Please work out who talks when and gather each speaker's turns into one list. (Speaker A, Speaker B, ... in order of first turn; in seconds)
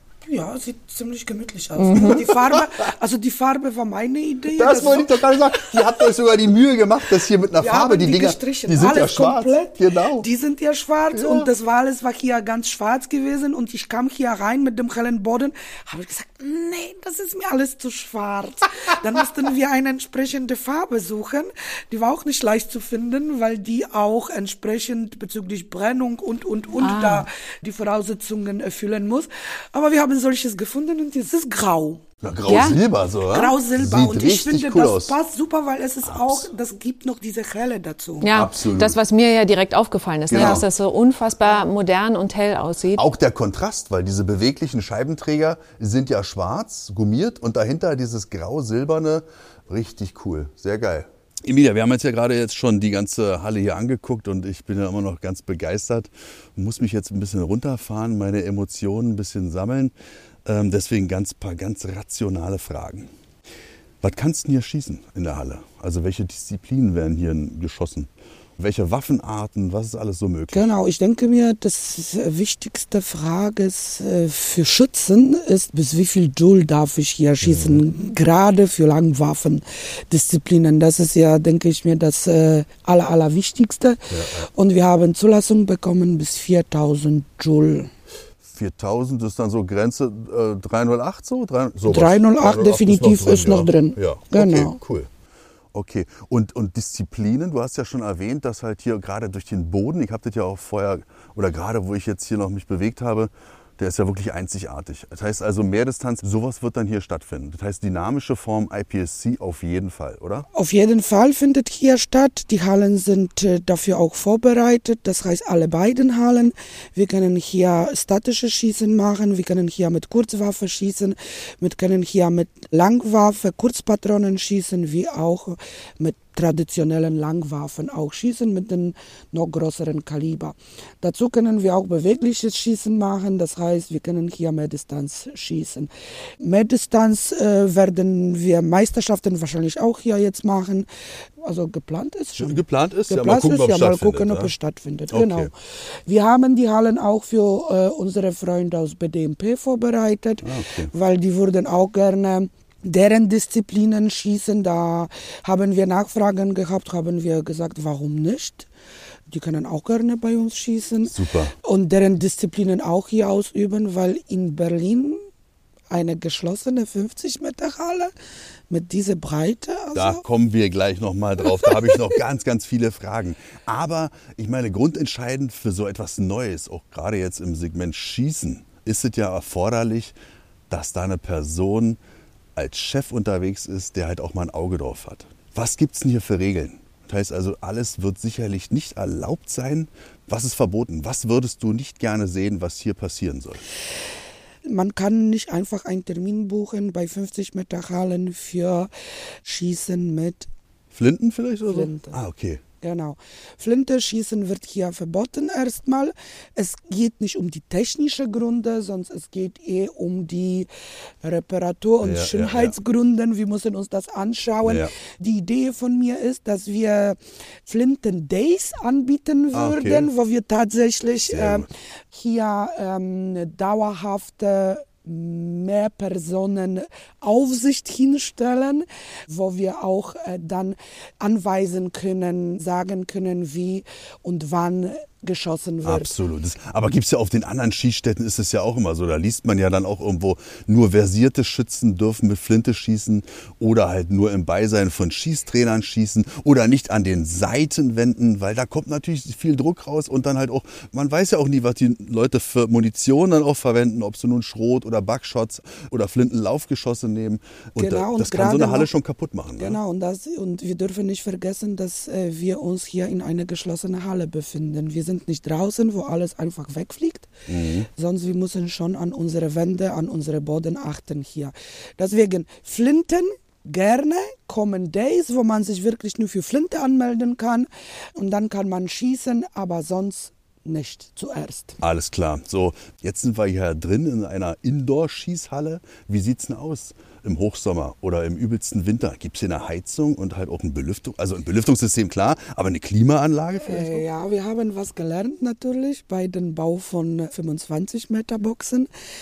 Speaker A: 0.2-5.6, 7.5-32.0, 33.2-38.3, 40.3-40.6, 70.5-87.9, 91.8-94.8, 110.5-140.9, 141.4-145.5, 146.1-158.7, 159.3-165.2, 165.9-168.1, 168.7-170.2, 194.6-198.9, 199.4-200.5, 201.7-202.2, 202.8-210.7, 211.2-236.2, 257.8-258.9, 259.5-267.3, 267.9-281.8, 293.5-298.9
Speaker B: 1.8-2.2, 26.8-27.3, 32.5-32.8, 38.2-43.0
Speaker C: 4.5-10.3, 11.1-11.5, 32.2-35.1, 36.0-36.5, 38.3-39.0, 40.3-40.6, 42.9-59.9, 60.4-63.1, 64.0-70.7, 77.4-77.8, 84.1-84.5, 88.4-95.1, 95.7-110.5, 142.4-144.5, 145.1-145.5, 150.4-150.9, 161.1-161.5, 169.9-180.1, 180.7-182.0, 182.6-193.6, 200.9-202.6, 212.0-212.8, 214.6-214.9, 219.5-220.1, 221.3-221.7, 235.8-259.8, 267.5-267.9, 281.8-294.0